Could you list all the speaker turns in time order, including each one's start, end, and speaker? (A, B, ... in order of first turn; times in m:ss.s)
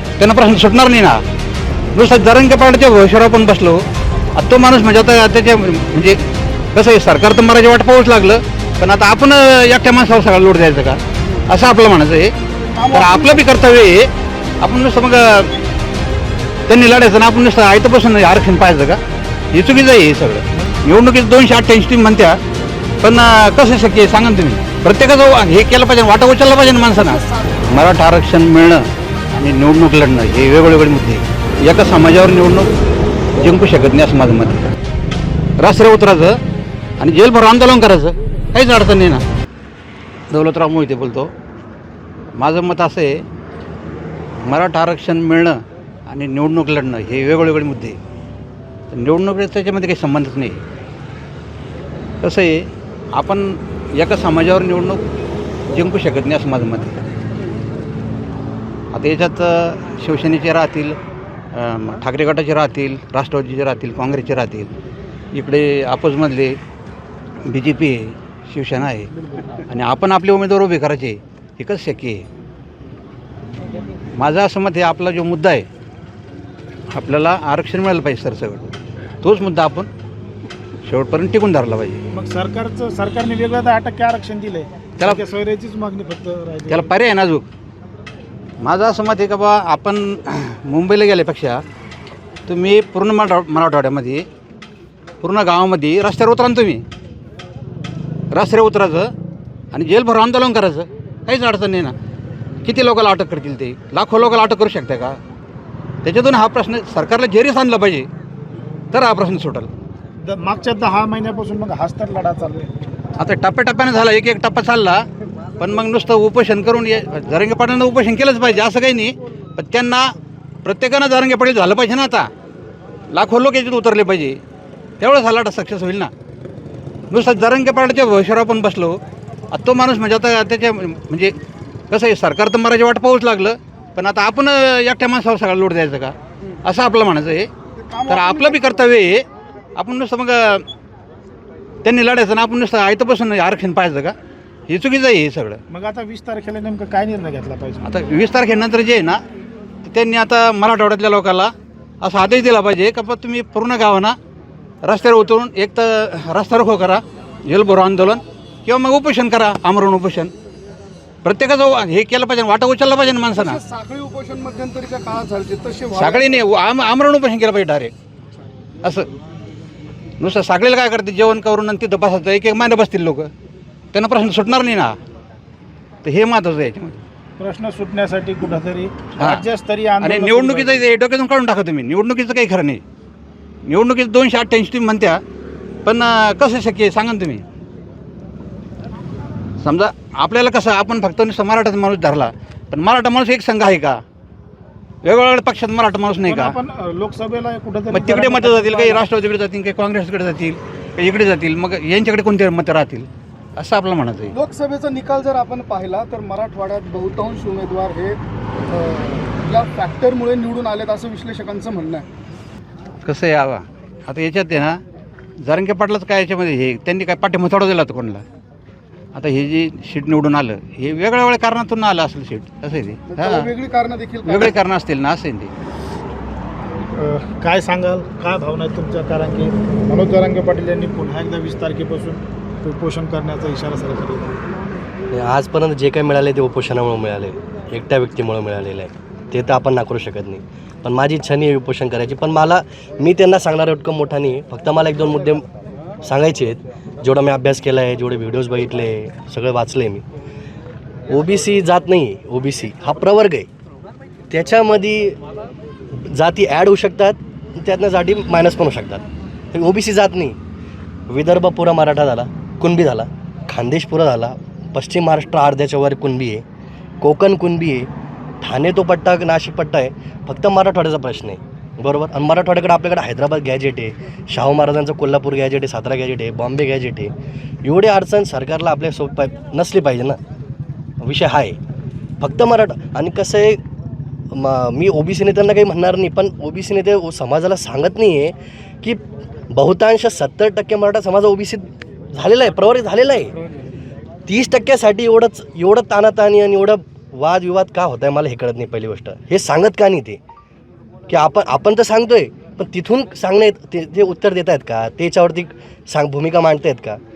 0:00.2-0:01.2 A
0:01.9-0:03.8 A
0:04.4-0:06.2 A
0:06.7-0:12.3 A
0:12.7-0:13.4 B
0:12.9-0:14.1 A
0:14.6-0:15.5 A
0:16.7-0:19.0 A
0:19.5-0:22.4 A
0:23.0-0:32.7 A
0:33.4-0:34.6 A
0:35.6-0:36.4 A
0:37.0-0:39.2 A
0:40.3-0:41.3 A
0:42.4-0:43.2 A
0:44.4-0:48.0 A
0:48.9-0:50.6 A
0:52.2-0:55.0 A
0:55.7-0:57.0 A
0:58.9-1:01.0 A
1:01.5-1:04.7 A
1:05.3-1:06.6 A
1:07.4-1:09.1 A
1:09.7-1:12.2 A
1:14.2-1:15.7 A
1:16.9-1:18.7 A
1:19.2-1:19.9 A
1:20.8-1:22.0 A
1:22.1-1:26.9 C
1:26.7-1:27.4 A
1:28.6-1:31.6 A
1:32.5-1:34.2 A
1:35.2-1:36.8 A
1:38.3-1:39.1 A
1:39.7-1:41.9 A
1:42.6-1:45.2 A
1:46.0-1:48.1 A
1:48.9-1:49.7 A
1:50.2-1:52.7 C
1:53.2-1:55.0 A
1:55.6-2:00.1 A
2:00.6-2:02.3 A
2:03.1-2:04.4 A
2:05.0-2:06.1 A
2:07.1-2:09.0 A
2:09.5-2:11.3 A
2:11.9-2:17.5 A
2:17.8-2:18.8 B
2:18.1-2:20.6 A
2:21.8-2:24.1 A
2:24.7-2:25.6 A
2:25.7-2:27.8 C
2:27.8-2:29.2 A
2:29.8-2:34.2 A
2:34.8-2:40.3 A
2:41.2-2:43.6 A
2:43.4-2:46.4 B
2:45.9-2:47.9 A
2:48.8-2:49.1 A
2:50.2-2:53.3 A
2:53.9-2:54.9 A
2:56.0-2:57.0 A
2:57.4-3:00.8 C
2:59.2-2:59.4 A
3:00.0-3:02.8 A
3:03.6-3:05.2 A
3:05.8-3:07.4 A
3:09.6-3:14.0 A
3:15.0-3:16.6 A
3:16.2-3:19.0 C
3:17.9-3:24.3 A
3:24.3-3:32.1 B
3:33.0-3:34.8 A
3:35.4-3:38.2 A
3:39.1-3:43.5 A
3:43.1-3:44.6 B
3:44.2-3:45.5 A
3:46.9-3:54.4 C
3:55.1-4:05.4 D
4:06.0-4:10.0 D
4:11.1-4:13.5 D
4:14.3-4:15.2 D
4:15.9-4:20.4 D
4:21.1-4:26.4 D
4:27.0-4:27.9 D
4:28.4-4:37.1 D
4:37.6-4:40.2 D
4:41.0-4:41.6 D
4:42.2-4:43.6 D
4:44.3-4:49.0 D
4:49.5-4:53.3 D
4:54.2-5:00.2 D
5:01.1-5:07.0 D